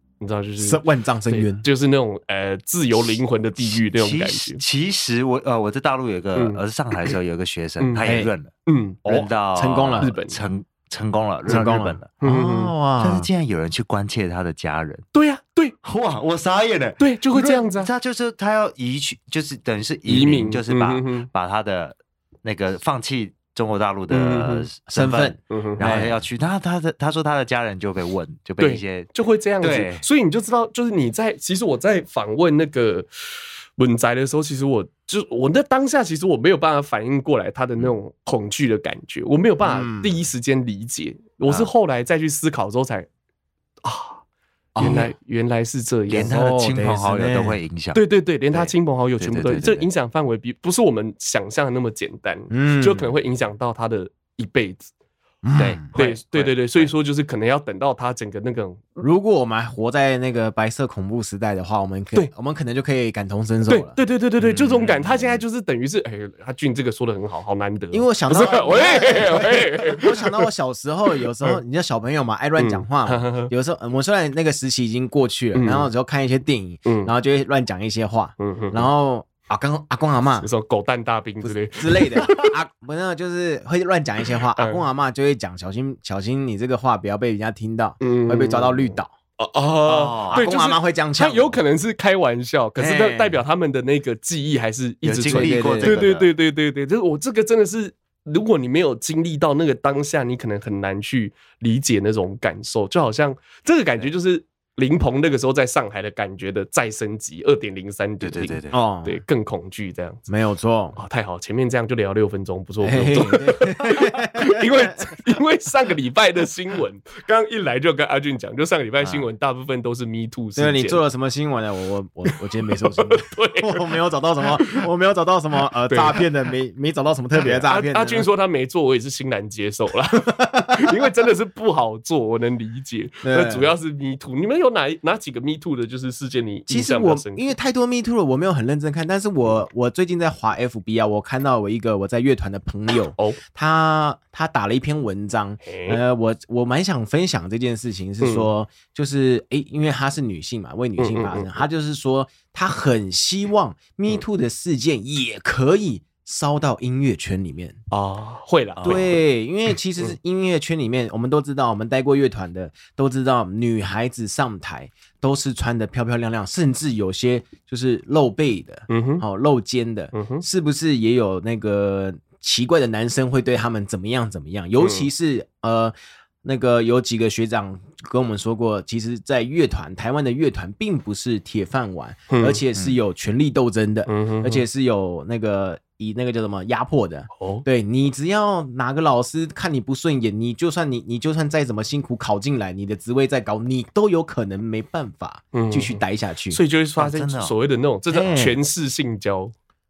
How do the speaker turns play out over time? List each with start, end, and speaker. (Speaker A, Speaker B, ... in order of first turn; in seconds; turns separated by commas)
Speaker A: 0.2-4.6, Speaker B: 0.6-1.6, Speaker C: 3.9-8.5, Speaker A: 7.8-8.0, Speaker B: 8.0-8.3, Speaker A: 8.7-9.2, Speaker B: 9.0-10.1, Speaker C: 9.1-12.1, Speaker A: 10.0-10.4, Speaker B: 11.5-13.3, Speaker A: 11.5-12.7, Speaker C: 13.0-15.0, Speaker A: 15.1-15.8, Speaker C: 15.8-30.1, Speaker A: 17.0-17.9, Speaker A: 20.1-21.3, Speaker A: 24.1-24.7, Speaker B: 24.9-26.1, Speaker A: 25.5-25.9, Speaker A: 28.6-33.1, Speaker A: 33.8-43.1, Speaker B: 39.6-40.2, Speaker A: 43.8-44.2, Speaker B: 44.7-45.1, Speaker A: 44.8-46.3, Speaker C: 46.1-49.9, Speaker B: 46.2-47.6, Speaker A: 47.9-54.9, Speaker B: 52.5-53.1, Speaker B: 55.4-55.8, Speaker C: 55.6-56.9, Speaker A: 55.9-59.0, Speaker B: 59.0-64.0, Speaker A: 63.7-70.5, Speaker C: 64.4-65.4, Speaker B: 67.9-80.5, Speaker A: 72.6-73.5, Speaker A: 75.5-75.9, Speaker A: 76.8-77.1, Speaker A: 78.4-78.9, Speaker A: 80.3-82.3, Speaker B: 81.4-89.1, Speaker A: 84.5-84.8, Speaker A: 88.0-110.3, Speaker C: 89.8-90.5, Speaker B: 90.3-91.5, Speaker B: 92.8-93.4, Speaker C: 95.0-96.3, Speaker B: 95.3-96.0, Speaker C: 108.2-108.8, Speaker B: 108.7-109.2, Speaker B: 110.3-111.0, Speaker A: 111.0-121.0, Speaker B: 112.8-115.0, Speaker B: 120.5-128.3, Speaker A: 122.8-123.8, Speaker A: 125.9-126.2, Speaker A: 127.4-137.5, Speaker B: 130.2-130.9, Speaker B: 133.2-133.7, Speaker B: 136.7-157.8, Speaker A: 145.6-146.0, Speaker A: 148.2-148.5, Speaker A: 151.0-151.5, Speaker A: 157.9-159.2, Speaker B: 158.8-196.6, Speaker A: 168.9-169.2, Speaker A: 170.1-170.4, Speaker A: 174.8-175.1, Speaker A: 182.3-182.6, Speaker A: 184.1-184.6, Speaker A: 187.4-187.6, Speaker A: 195.5-199.5, Speaker C: 197.0-197.5, Speaker B: 198.1-198.6